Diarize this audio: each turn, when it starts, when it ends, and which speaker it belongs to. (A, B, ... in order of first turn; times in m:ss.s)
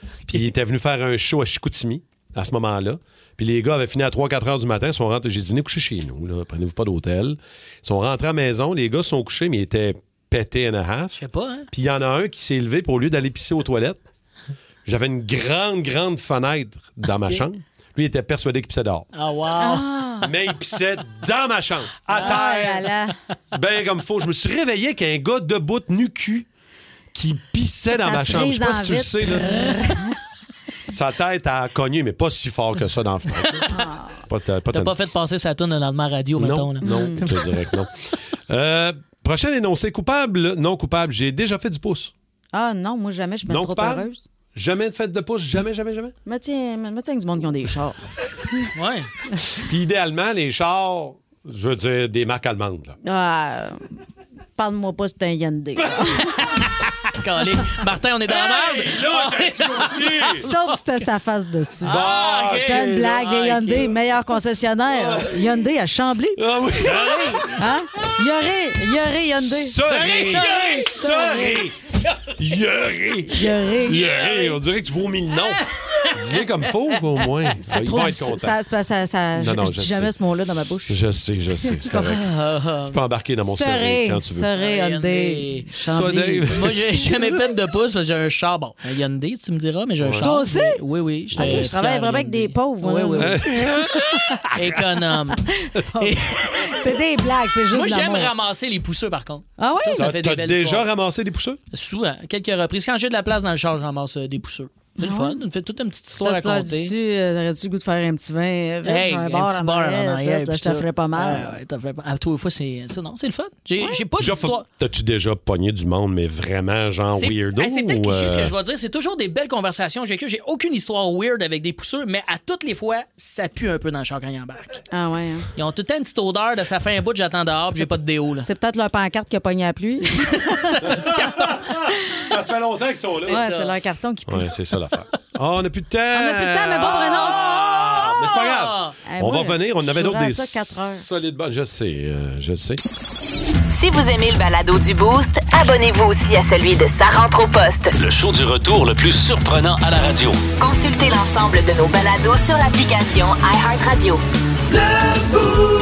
0:00.3-0:11.2 A
0:11.2-0:11.7 B
0:11.7-0:14.0 A
0:14.8-0:19.1 A
0:19.1-0:19.8 B
0:19.6-0:20.3 C
0:20.2-0:22.8 A
0:22.1-0:22.4 B
0:22.1-0:23.1 C
0:23.5-0:26.4 A
0:27.1-0:29.8 A
0:27.9-0:30.1 C
0:29.5-0:29.8 B
0:30.9-0:33.7 A
0:33.7-0:34.2 C
0:34.3-0:34.9 A
0:34.7-0:37.6 B
0:36.4-0:37.9 A
0:36.8-0:37.2 C
0:38.5-0:42.1 A
0:42.5-0:44.3 C
0:43.5-0:46.1 A
0:46.2-0:48.0 C
0:48.7-0:49.1 B
0:49.5-0:53.0 A
0:53.0-0:53.8 C
0:54.6-0:56.4 C
0:57.1-1:00.7 B
0:58.3-1:00.5 A
1:00.4-1:06.4 C
1:01.8-1:03.9 B
1:01.8-1:03.2 A
1:04.9-1:05.4 A
1:06.4-1:07.5 A
1:06.8-1:07.5 B
1:07.6-1:11.7 C
1:09.4-1:11.8 A
1:09.8-1:11.0 B
1:12.4-1:18.6 A
1:13.3-1:14.4 C
1:14.0-1:14.5 B
1:15.5-1:17.3 B
1:17.6-1:21.0 C
1:19.3-1:20.1 A
1:20.9-1:22.3 A
1:21.6-1:22.1 C
1:22.1-1:23.0 B
1:22.9-1:24.5 A
1:23.4-1:26.5 C
1:24.5-1:25.7 B
1:25.9-1:26.8 A
1:26.5-1:33.5 B
1:30.0-1:30.3 A
1:30.2-1:30.8 C
1:31.3-1:31.7 A
1:31.3-1:33.4 C
1:33.2-1:34.7 A
1:34.5-1:35.4 B
1:35.5-1:38.3 C
1:36.0-1:37.0 B
1:37.7-1:40.9 B
1:39.6-1:40.1 C
1:40.0-1:41.6 A
1:41.7-1:46.9 B
1:45.0-1:45.4 C
1:46.2-1:51.5 C
1:48.8-1:54.6 B
1:53.8-1:54.0 C
1:54.2-1:58.5 A
1:57.1-2:04.8 B
2:04.9-2:05.5 C
2:05.6-2:08.5 B
2:07.8-2:10.7 C
2:10.0-2:11.7 B
2:10.8-2:13.4 A
2:13.2-2:13.7 B
2:13.3-2:14.5 C
2:14.3-2:22.8 A
2:16.1-2:17.4 C
2:17.3-2:18.9 B
2:19.1-2:21.0 C
2:23.7-2:27.9 D
2:28.0-2:30.4 E
2:30.6-2:34.2 D